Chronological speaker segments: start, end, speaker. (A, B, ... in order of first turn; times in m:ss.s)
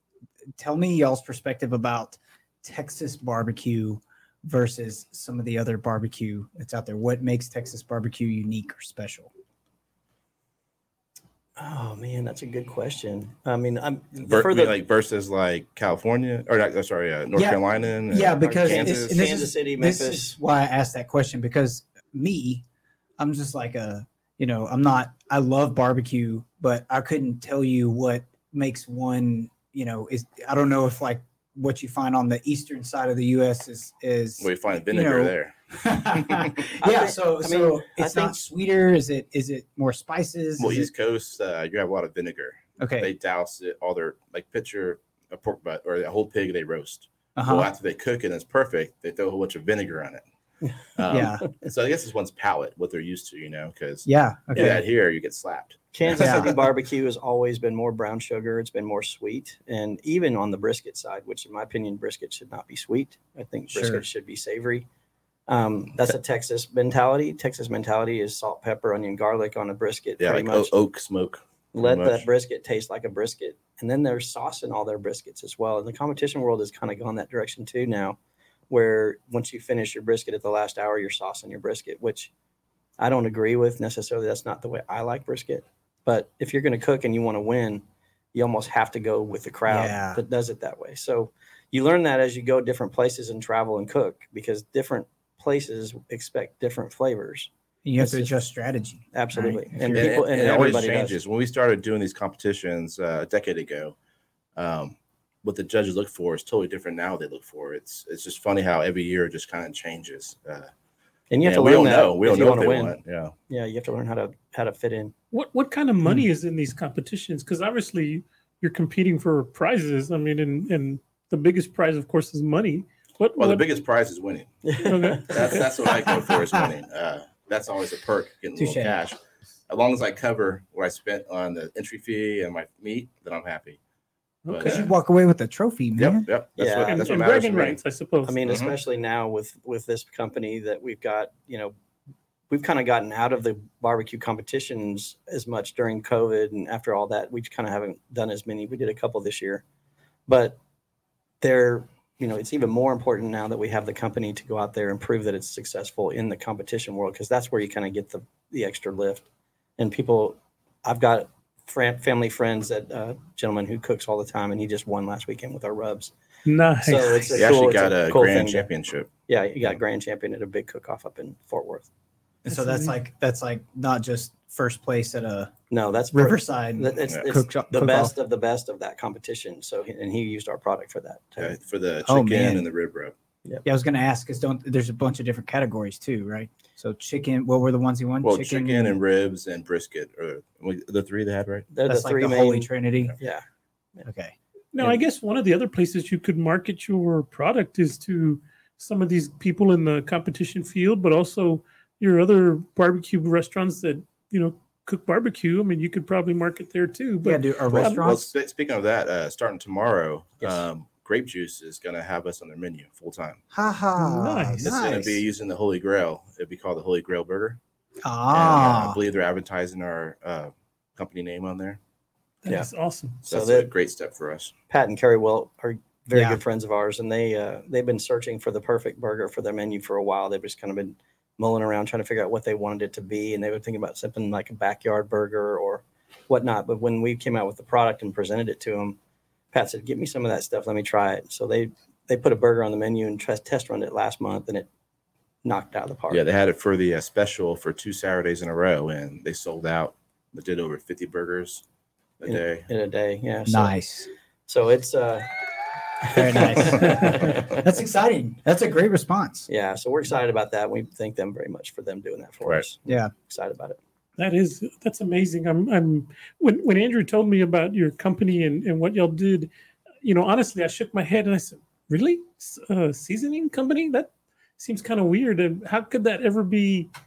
0:00.6-0:09.3 A
0:11.6-0:14.7 B
0:14.3-0:19.2 C
0:17.3-0:22.6 A
0:18.4-0:20.4 B
0:23.2-0:40.9 A
0:34.4-0:35.6 C
0:36.2-0:36.6 C
0:36.8-0:38.4 B
0:40.6-0:50.2 C
0:42.8-0:43.1 A
0:47.4-0:47.7 A
0:51.0-0:56.6 C
0:51.1-0:51.4 A
0:54.0-0:54.8 A
0:54.5-0:54.8 B
0:55.9-1:04.8 B
0:56.2-0:56.6 A
1:03.7-1:04.0 A
1:05.5-1:10.7 B
1:10.2-1:12.3 C
1:11.7-1:18.2 B
1:18.7-1:22.3 B
1:23.0-1:38.4 B
1:29.7-1:30.2 A
1:37.8-1:40.1 A
1:39.1-1:41.2 B
1:39.9-1:43.9 C
1:44.6-1:50.7 C
1:51.3-1:53.0 B
1:51.4-1:53.3 C
1:53.5-1:55.1 B
1:55.3-2:03.6 D
2:03.4-2:04.5 C
2:04.6-2:05.9 B
2:04.8-2:05.7 D
2:05.1-2:09.2 C
2:08.6-2:09.0 A
2:09.7-2:13.8 C
2:14.4-2:14.9 D
2:14.5-2:14.9 C
2:14.6-2:16.2 A
2:16.0-2:17.8 C
2:16.6-2:17.2 B
2:16.8-2:18.4 D
2:18.2-2:21.7 B
2:18.4-2:18.7 C
2:22.5-2:29.6 B
2:30.3-2:30.6 B
2:31.4-2:39.2 B
2:39.8-2:46.1 B
2:46.4-2:47.4 D
2:46.8-2:48.7 B
2:47.3-2:49.1 C
2:49.3-2:51.9 B
2:52.4-2:55.5 A
2:52.5-2:52.9 D
2:55.7-3:01.5 B
2:56.1-2:58.1 A
3:01.4-3:03.1 C
3:02.0-3:02.6 A
3:03.6-3:09.0 A
3:08.2-3:11.7 C
3:11.7-3:13.4 B
3:11.9-3:13.2 A
3:14.0-3:14.9 A
3:14.7-3:28.0 D
3:27.2-3:28.3 A
3:27.7-3:33.4 C
3:30.4-3:30.7 B
3:33.5-3:35.2 A
3:34.0-3:34.7 D
3:34.6-3:37.6 C
3:38.0-3:39.0 A
3:38.3-3:41.8 C
3:42.4-3:43.2 D
3:43.2-3:43.7 B
3:43.2-3:44.5 C
3:44.7-3:59.0 B
3:46.1-3:46.4 A
3:59.5-4:04.7 B
4:05.4-4:06.2 B
4:06.1-4:11.6 C
4:12.2-4:12.7 C
4:12.2-4:13.8 B
4:13.4-4:14.1 A
4:14.5-4:15.3 B
4:16.0-4:17.4 B
4:16.1-4:19.5 A
4:19.5-4:23.8 B
4:22.8-4:23.1 A
4:24.2-4:29.5 D
4:30.0-4:36.9 D